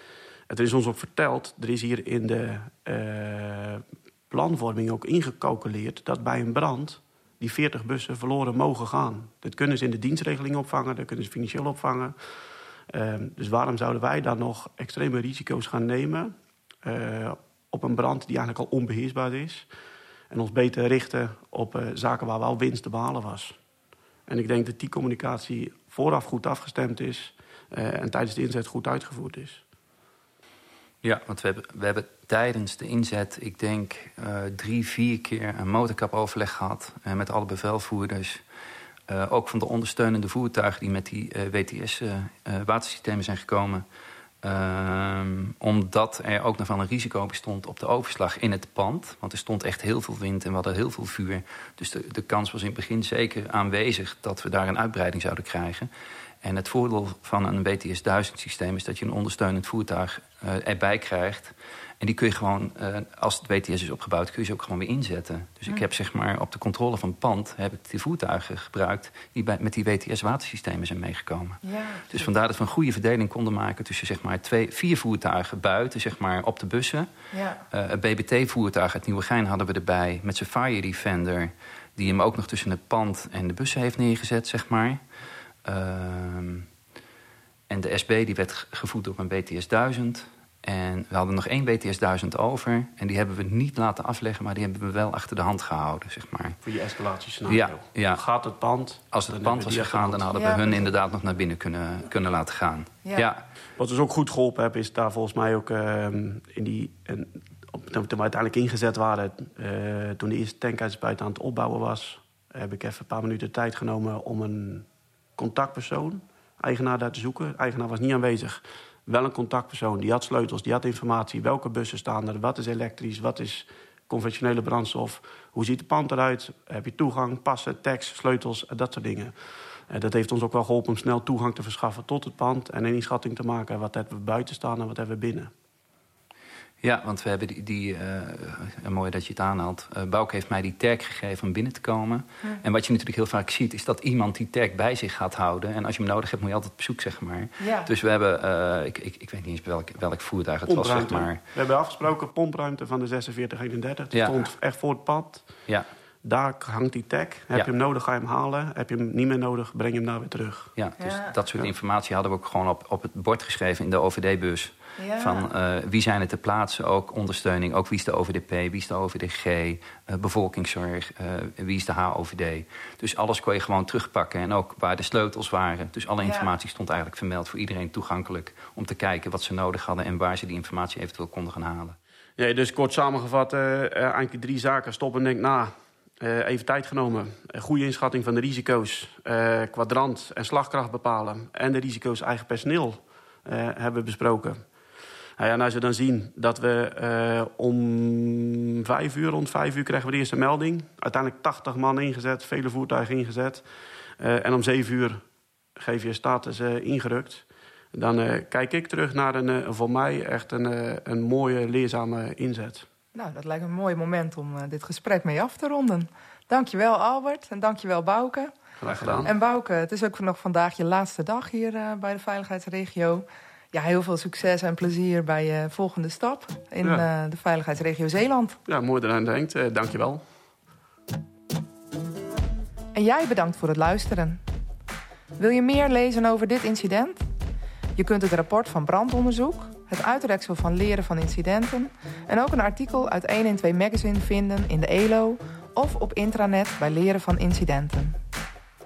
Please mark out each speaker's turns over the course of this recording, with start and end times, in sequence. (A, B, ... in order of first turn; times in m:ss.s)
0:00.5-0:12.1 A
0:12.9-0:16.3 A
0:16.8-0:19.7 A
0:20.3-0:23.6 A
0:24.3-0:29.6 A
0:31.0-0:38.4 B
0:39.1-0:43.8 B
0:44.4-0:55.9 B
0:56.4-1:17.1 B
1:11.6-1:12.2 C
1:17.3-1:17.6 C
1:17.7-1:25.0 B
1:25.6-1:26.6 B
1:27.7-1:36.6 B
1:36.6-1:40.3 A
1:37.5-1:38.2 B
1:39.1-1:43.4 B
1:40.3-1:40.9 C
1:43.8-1:54.9 A
1:55.4-2:09.3 A
2:09.9-2:15.5 A
2:16.8-2:31.4 B
2:27.6-2:27.9 C
2:30.7-2:35.5 A
2:34.1-2:34.5 B
2:36.2-2:40.8 A
2:40.8-3:02.0 B
2:41.0-2:41.3 C
2:45.0-2:45.5 C
2:56.2-2:56.5 C
3:02.4-3:14.6 A
3:15.4-3:23.6 A
3:24.2-3:25.2 A
3:25.8-3:32.9 A
3:33.1-3:38.6 C
3:38.8-3:39.3 A
3:38.9-3:39.3 B
3:39.2-3:48.6 C
3:48.7-3:50.2 A
3:52.9-3:54.4 C
3:55.4-3:57.3 C
3:58.0-4:08.2 C